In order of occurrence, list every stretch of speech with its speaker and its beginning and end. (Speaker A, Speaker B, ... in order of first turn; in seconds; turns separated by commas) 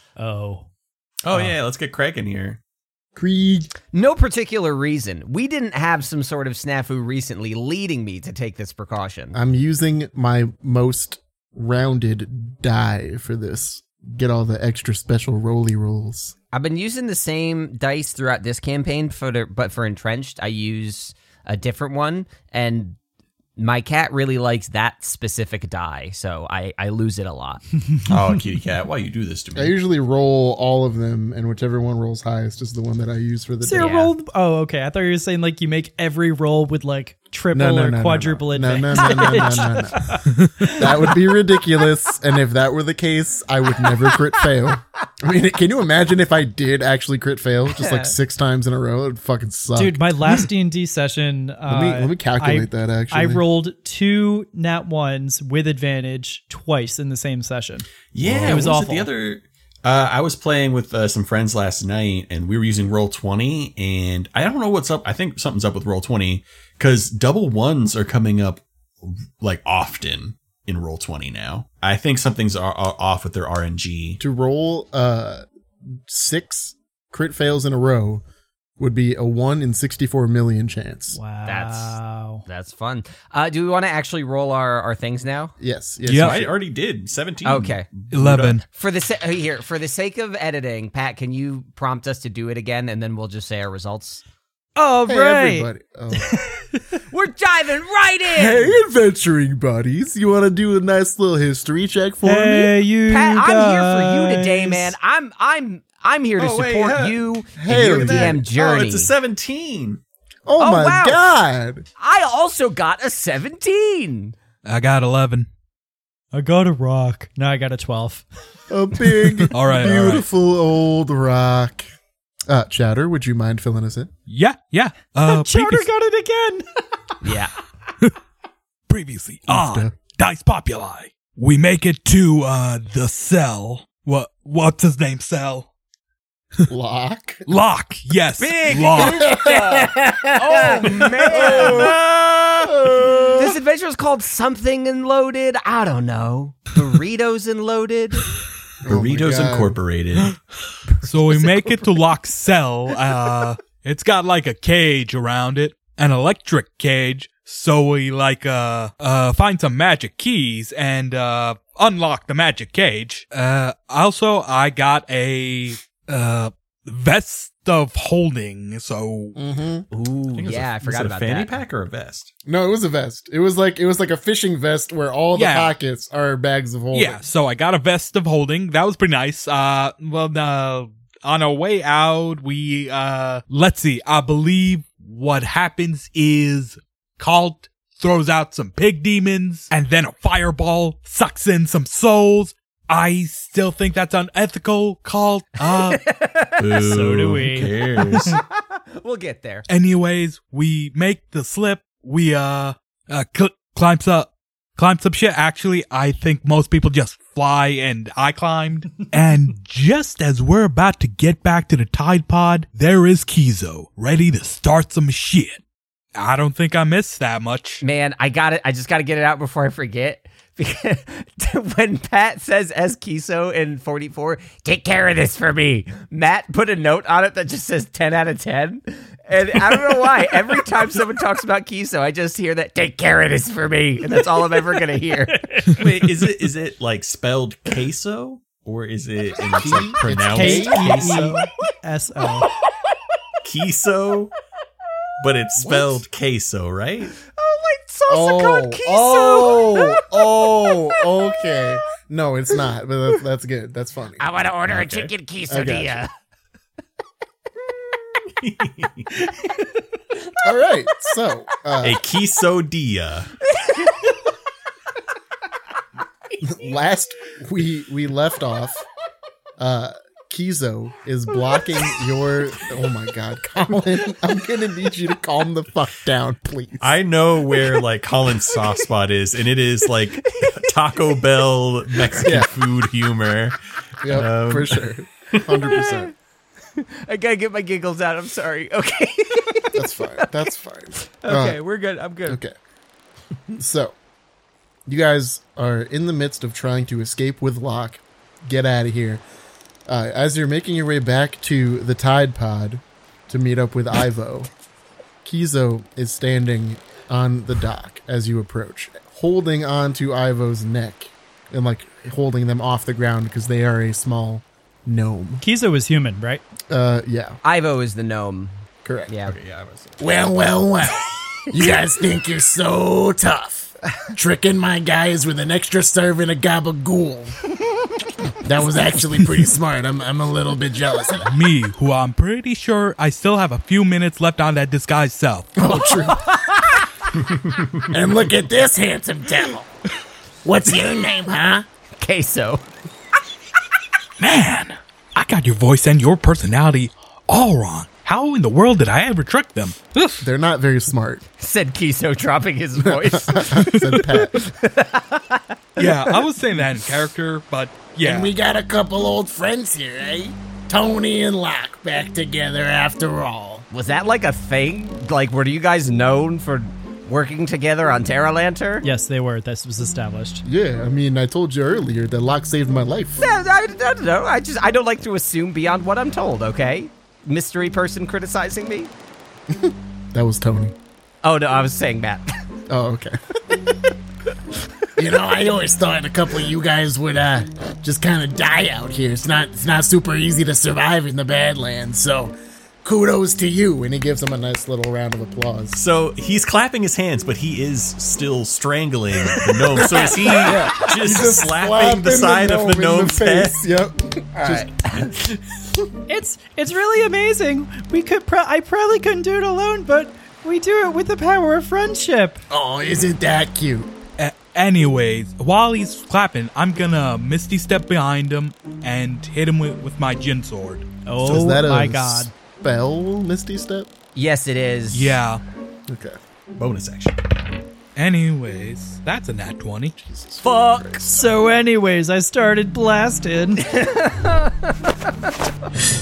Speaker A: 0.2-0.7, Speaker B: 1.2-2.6, Speaker C: 3.1-3.7, Speaker D: 3.9-9.4, Speaker C: 9.3-16.3, Speaker D: 16.5-23.0, Speaker D: 23.6-27.6, Speaker B: 28.0-29.8, Speaker C: 29.6-33.9, Speaker A: 33.6-41.2, Speaker D: 33.8-34.1, Speaker C: 37.5-50.0, Speaker E: 40.3-40.7, Speaker D: 47.8-48.1, Speaker A: 49.8-59.1, Speaker C: 51.7-53.5, Speaker B: 58.1-74.2, Speaker C: 58.3-58.6, Speaker C: 74.2-78.2, Speaker C: 78.8-81.2, Speaker A: 81.1-82.4, Speaker D: 81.5-85.5, Speaker C: 85.6-86.5, Speaker E: 86.0-86.4, Speaker B: 86.2-88.6, Speaker D: 87.5-87.9, Speaker E: 88.1-88.6, Speaker D: 88.7-94.2, Speaker A: 94.8-96.6, Speaker C: 95.0-96.5, Speaker D: 97.1-98.8, Speaker C: 98.3-102.8, Speaker A: 102.2-105.0, Speaker D: 103.1-109.1, Speaker B: 106.4-110.0, Speaker C: 107.6-108.4, Speaker C: 110.5-111.9, Speaker D: 110.6-111.3, Speaker D: 112.0-114.4, Speaker E: 114.7-115.5, Speaker A: 116.3-118.3, Speaker C: 118.7-121.9, Speaker E: 119.5-120.2, Speaker C: 122.5-124.1, Speaker E: 124.3-125.9, Speaker A: 125.3-126.7, Speaker D: 127.2-127.5, Speaker E: 128.9-135.7, Speaker C: 129.5-129.9, Speaker C: 136.7-137.4, Speaker E: 137.5-139.3, Speaker D: 138.4-142.0, Speaker C: 139.0-142.0, Speaker B: 141.4-141.8, Speaker C: 142.6-143.5, Speaker D: 143.3-148.3, Speaker C: 148.8-149.8, Speaker B: 148.9-150.3, Speaker E: 151.0-169.4, Speaker D: 151.1-151.9, Speaker C: 169.4-169.9, Speaker D: 169.9-171.5, Speaker B: 170.4-172.3, Speaker C: 172.5-177.2, Speaker E: 175.3-175.8, Speaker E: 176.9-196.0, Speaker D: 195.7-196.7, Speaker B: 196.6-198.3, Speaker A: 196.8-197.7, Speaker D: 198.3-199.7, Speaker E: 199.7-215.6, Speaker E: 216.2-217.8, Speaker D: 217.8-235.7, Speaker B: 235.8-241.4, Speaker C: 239.5-241.4, Speaker A: 240.3-242.5, Speaker B: 243.4-244.3, Speaker B: 245.2-247.2, Speaker C: 245.7-245.9, Speaker D: 247.2-251.1, Speaker C: 248.1-254.2, Speaker D: 254.2-256.1, Speaker B: 254.7-255.1, Speaker C: 255.5-256.0, Speaker B: 258.4-259.5, Speaker C: 260.4-262.0, Speaker B: 261.8-263.3, Speaker D: 263.5-264.1, Speaker C: 266.4-268.9, Speaker C: 269.6-276.9, Speaker B: 276.8-285.4, Speaker C: 282.2-282.5, Speaker C: 284.0-286.1, Speaker D: 285.7-286.1, Speaker D: 286.8-290.3, Speaker C: 289.7-291.6, Speaker D: 291.0-292.4, Speaker C: 292.3-292.5, Speaker C: 293.6-293.9, Speaker C: 294.9-299.2, Speaker C: 299.9-304.5, Speaker C: 305.2-315.4, Speaker A: 315.4-316.4, Speaker C: 316.7-317.4, Speaker D: 317.4-319.4, Speaker C: 318.9-319.1, Speaker B: 319.3-320.1, Speaker C: 320.0-327.3, Speaker C: 328.4-331.3, Speaker E: 331.3-335.6, Speaker C: 335.6-336.7, Speaker D: 335.7-336.8, Speaker B: 337.2-337.9, Speaker C: 337.9-339.7, Speaker C: 340.4-341.6, Speaker D: 342.0-342.6, Speaker E: 344.2-350.3, Speaker C: 350.2-351.2, Speaker D: 351.4-356.2, Speaker C: 352.8-354.4, Speaker E: 353.6-354.0, Speaker E: 355.8-358.3, Speaker C: 358.0-363.6, Speaker D: 363.7-368.9, Speaker A: 368.8-370.4, Speaker C: 370.4-373.2, Speaker D: 373.2-378.9, Speaker C: 379.5-380.8, Speaker D: 381.2-382.3, Speaker C: 382.7-383.2, Speaker C: 385.0-395.8, Speaker B: 395.7-403.6, Speaker C: 399.4-404.7, Speaker D: 399.9-400.9, Speaker D: 404.4-405.2, Speaker A: 406.1-412.4, Speaker C: 412.5-413.9, Speaker E: 414.2-421.0, Speaker A: 421.1-422.3, Speaker C: 421.2-423.9, Speaker D: 424.1-425.2, Speaker E: 424.9-425.4, Speaker C: 425.9-426.2, Speaker B: 426.6-427.2, Speaker E: 428.0-429.9, Speaker C: 430.0-431.3, Speaker D: 430.4-431.2, Speaker A: 431.1-433.6, Speaker D: 433.6-435.3